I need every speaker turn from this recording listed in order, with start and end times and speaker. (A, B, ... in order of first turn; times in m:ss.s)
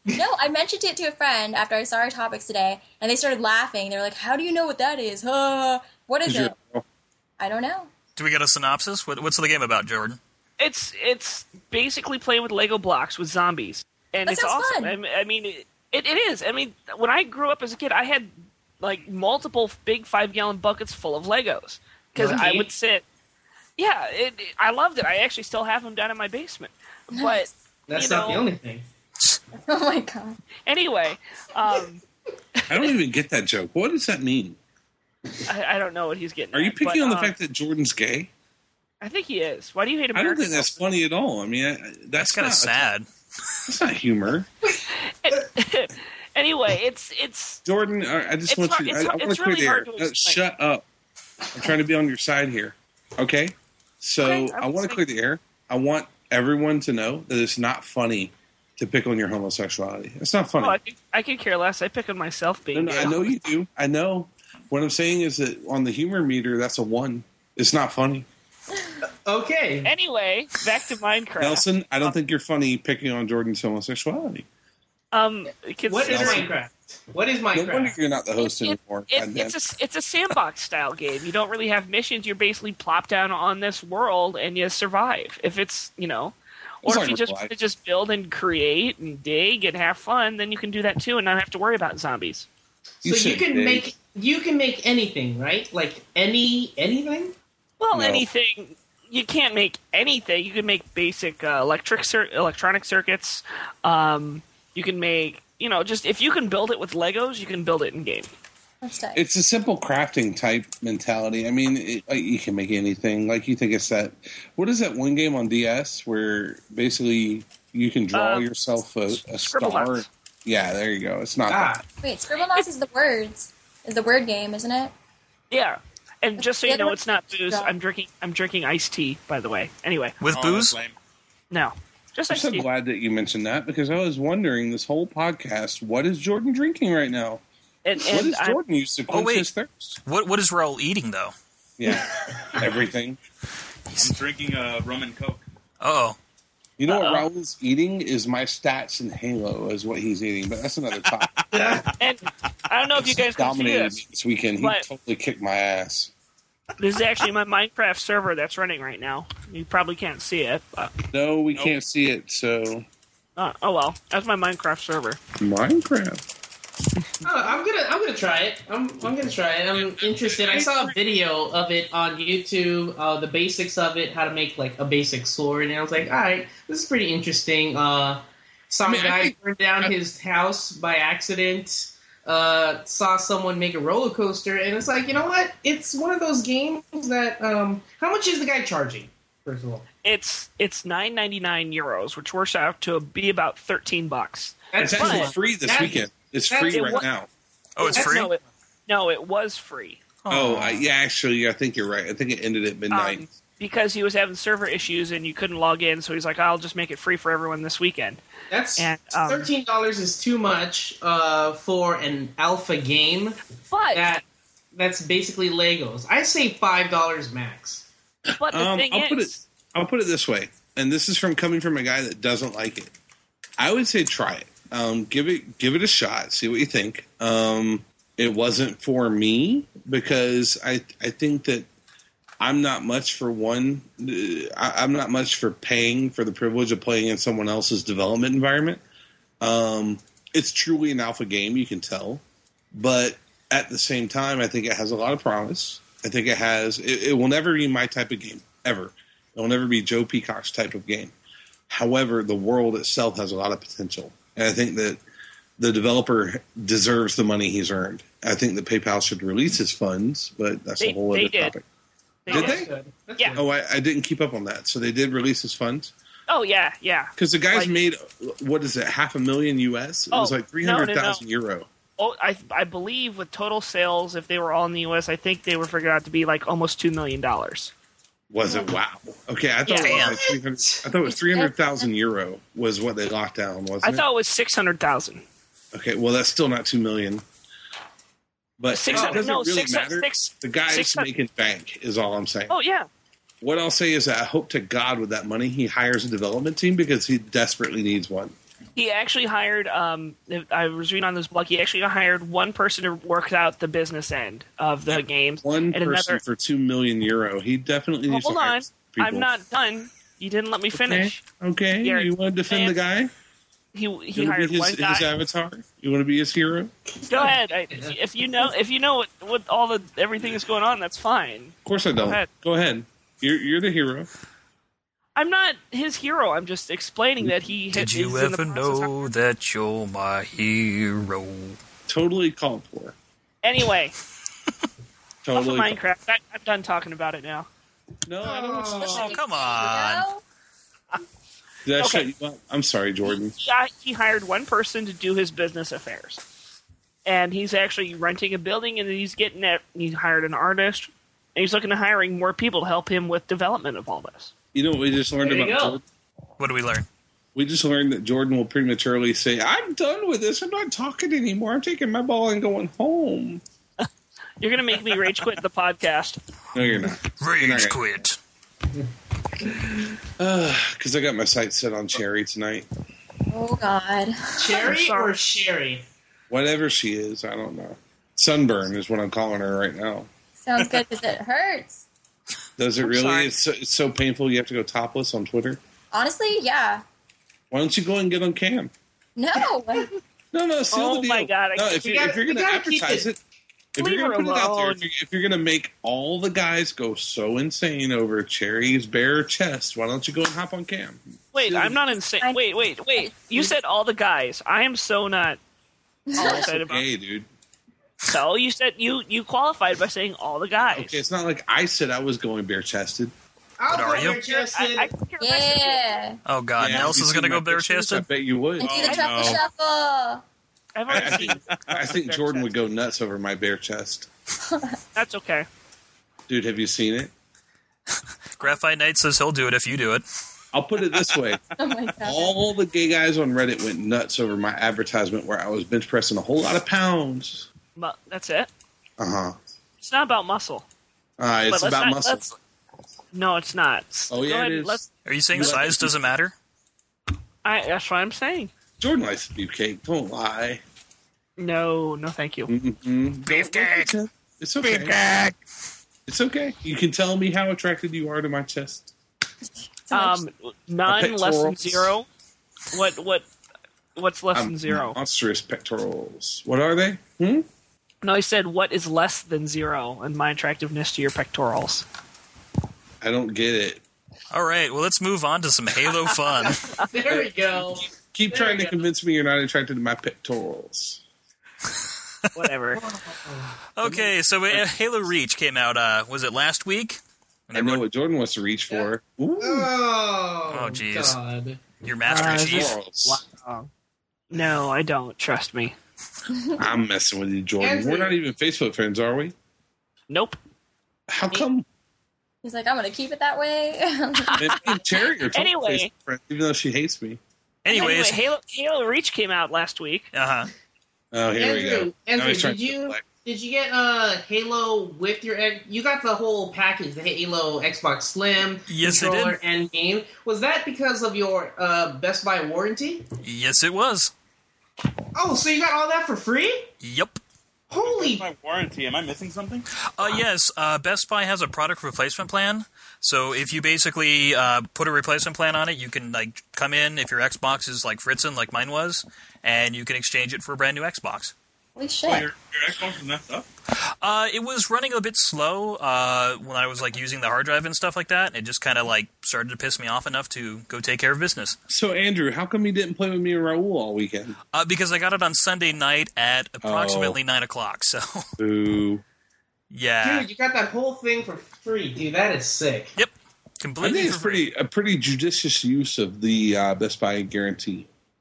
0:00.1-0:06.5 A
0:06.2-0:06.8 B
0:07.4-0:07.9 A
0:08.2-0:10.2 C
0:10.6-0:18.3 D
0:14.3-0:15.0 A
0:18.8-0:23.0 D
0:22.2-0:22.7 E
0:23.8-0:28.4 D
0:27.1-0:27.4 A
0:27.9-0:28.8 E
0:29.6-0:30.4 A
0:30.7-0:32.0 D
0:32.7-0:34.6 B
0:35.5-0:37.3 D
0:36.5-0:38.3 B
0:39.0-0:40.8 D
0:40.1-0:42.9 B
0:42.2-0:43.1 C
0:43.7-0:44.5 B
0:45.2-0:47.6 D
0:47.6-0:50.8 B
0:48.5-0:50.4 D
0:51.5-1:00.8 B
0:54.2-0:55.0 D
1:00.6-1:03.3 D
1:02.7-1:08.3 B
1:09.3-1:09.9 E
1:09.8-1:12.1 D
1:11.4-1:14.5 B
1:15.1-1:16.5 D
1:15.9-1:18.0 E
1:16.1-1:16.5 B
1:17.5-1:19.6 B
1:18.4-1:32.5 D
1:26.8-1:27.5 B
1:33.0-1:37.4 E
1:33.0-1:33.9 B
1:37.8-1:48.3 D
1:37.9-1:38.3 B
1:48.8-1:49.2 A
1:49.2-2:01.8 B
1:58.1-1:58.5 D
1:59.1-2:00.1 D
2:01.5-2:01.8 E
2:02.0-2:04.9 A
2:05.5-2:10.2 D
2:06.4-2:07.7 A
2:10.2-2:10.8 C
2:10.3-2:11.0 F
2:11.5-2:12.7 D
2:12.3-2:17.4 B
2:17.8-2:18.6 D
2:18.0-2:20.0 B
2:19.1-2:19.5 C
2:20.0-2:21.3 C
2:21.8-2:23.2 B
2:23.9-2:24.1 C
2:24.0-2:25.4 F
2:25.8-2:26.2 C
2:26.8-2:31.3 B
2:26.9-2:27.3 D
2:31.5-2:31.8 E
2:32.0-2:34.0 D
2:33.0-2:36.1 B
2:34.6-2:34.9 D
2:36.8-2:41.0 D
2:41.1-2:42.9 B
2:41.5-2:41.8 F
2:43.4-2:45.2 D
2:45.4-2:46.2 B
2:47.2-3:09.8 E
2:58.8-2:59.9 B
3:10.0-3:15.3 D
3:14.7-3:16.9 E
3:14.8-3:17.3 B
3:16.7-3:17.1 D
3:17.8-3:18.3 C
3:17.8-3:20.0 D
3:17.9-3:18.3 E
3:20.2-3:20.8 C
3:20.3-3:23.3 B
3:22.9-3:28.2 D
3:28.5-3:33.4 E
3:28.8-3:29.5 D
3:33.7-3:34.1 D
3:33.9-3:37.9 E
3:38.3-3:42.9 B
3:38.4-3:39.4 D
3:43.6-3:51.7 B
3:52.4-3:58.8 B
3:59.4-4:11.1 B
4:11.7-4:15.0 B
4:15.6-4:21.6 B
4:20.8-4:21.6 D
4:22.3-4:22.6 D
4:22.3-4:22.7 B
4:22.3-4:23.4 E
4:23.4-4:25.9 B
4:26.3-4:27.7 D
4:27.2-4:31.7 B
4:30.1-4:31.2 D
4:32.0-4:37.7 D
4:38.3-4:44.0 B
4:39.7-4:40.0 D
4:39.8-4:40.2 C
4:40.2-4:40.8 E
4:41.0-4:41.8 A
4:43.8-4:45.2 D
4:45.7-4:47.2 B
4:48.6-4:52.5 B
4:48.7-4:51.1 D
4:48.9-4:49.2 E
4:52.5-4:52.9 D
4:53.4-4:58.4 B
4:58.8-5:06.2 D
5:05.4-5:09.3 B
5:08.1-5:11.2 D
5:10.7-5:13.1 B
5:11.8-5:12.8 D
5:13.7-5:15.1 D
5:14.2-5:16.7 B
5:17.0-5:18.0 E
5:17.1-5:22.3 D
5:21.6-5:24.1 B
5:25.2-5:29.1 D
5:27.7-5:31.6 C
5:31.9-5:33.0 B
5:33.4-5:34.0 D
5:35.2-5:35.8 B
5:35.3-5:37.5 D
5:38.1-5:39.2 B
5:38.2-5:39.1 E
5:38.8-5:40.2 A
5:39.0-5:40.1 C
5:41.6-5:43.4 B
5:41.8-5:42.1 D
5:43.4-5:46.2 D
5:47.0-5:54.3 D
5:54.5-5:55.8 B
5:55.2-5:55.8 E
5:56.4-5:56.9 C
5:57.4-6:03.4 B
6:04.4-6:06.2 D
6:06.5-6:08.0 B
6:07.2-6:08.2 C
6:10.2-6:12.7 B
6:13.3-6:14.8 A
6:14.4-6:15.8 E
6:14.6-6:15.2 D
6:16.3-6:20.1 B
6:20.4-6:21.8 A
6:22.6-6:25.6 B
6:22.8-6:23.3 D
6:25.9-6:26.8 A
6:27.5-6:28.7 B
6:29.2-6:29.9 A
6:30.3-6:33.2 B
6:30.7-6:31.9 D
6:31.8-6:33.1 E
6:33.8-6:41.8 B
6:33.8-6:34.9 D
6:41.3-6:45.4 D
6:43.0-6:43.5 A
6:46.1-6:46.5 A
6:46.2-6:46.9 D
6:46.2-6:47.3 B
6:48.1-6:51.0 D
6:50.7-6:53.1 B
6:53.6-6:54.9 E
6:53.7-6:54.2 C
6:53.9-6:56.0 D
6:55.2-6:56.2 A
6:56.3-6:58.1 C
6:56.6-6:58.9 B
6:58.6-7:00.2 A
6:58.6-6:59.4 F
6:58.8-6:59.4 D
7:00.8-7:02.5 D
7:00.9-7:04.1 B
7:00.9-7:02.0 F
7:04.4-7:04.8 A
7:05.0-7:05.5 D
7:06.3-7:07.1 B
7:08.4-7:10.0 C
7:10.5-7:11.4 B
7:10.9-7:11.4 F
7:11.6-7:12.4 A
7:12.0-7:17.5 B
7:17.8-7:18.5 D
7:19.0-7:19.4 B
7:19.8-7:20.6 D
7:21.2-7:22.4 B
7:21.5-7:22.2 D
7:23.1-7:25.6 D
7:24.1-7:26.0 B
7:25.1-7:26.3 C
7:27.4-7:28.5 D
7:28.8-7:30.6 B
7:31.4-7:32.5 D
7:32.5-7:35.0 B
7:33.3-7:33.9 C
7:34.6-7:35.3 C
7:36.1-7:38.9 B
7:39.9-7:40.2 A
7:39.9-7:42.1 D
7:40.9-7:41.9 B
7:42.7-7:43.3 D
7:44.0-7:45.0 D
7:44.3-7:47.5 B
7:48.0-7:51.8 D
7:53.0-7:53.8 B
7:54.3-7:56.7 C
7:56.1-7:56.9 D
7:56.9-7:58.8 E
7:57.1-8:01.0 B
8:02.3-8:02.8 D
8:02.9-8:03.5 E
8:03.8-8:07.8 C
8:03.8-8:04.6 B
8:07.5-8:09.7 B
8:08.7-8:11.6 E
8:10.5-8:11.2 C
8:11.8-8:12.8 C
8:12.1-8:13.7 D
8:12.1-8:13.2 B
8:14.3-8:15.8 D
8:16.3-8:16.6 A
8:16.6-8:19.4 B
8:17.6-8:18.2 E
8:20.1-8:20.4 D
8:21.1-8:21.6 B
8:22.4-8:24.7 A
8:24.2-8:24.8 D
8:24.4-8:27.2 B
8:25.3-8:25.9 D
8:27.6-8:28.2 C
8:27.7-8:30.1 D
8:30.1-8:30.5 C
8:31.1-8:33.0 B
8:31.4-8:43.0 E
8:38.7-8:39.4 C
8:43.2-8:44.1 C
8:45.2-8:46.7 E
8:46.8-8:47.2 C
8:47.7-8:48.2 E
8:47.8-8:49.7 F
8:49.9-9:01.3 C
9:01.8-9:02.3 A
9:02.0-9:03.5 F
9:04.0-9:11.6 C
9:11.7-9:14.4 B
9:14.5-9:18.3 C
9:16.6-9:17.2 B
9:18.4-9:19.0 B
9:19.7-9:20.3 C
9:20.0-9:22.9 E
9:23.0-9:24.4 C
9:23.8-9:27.9 B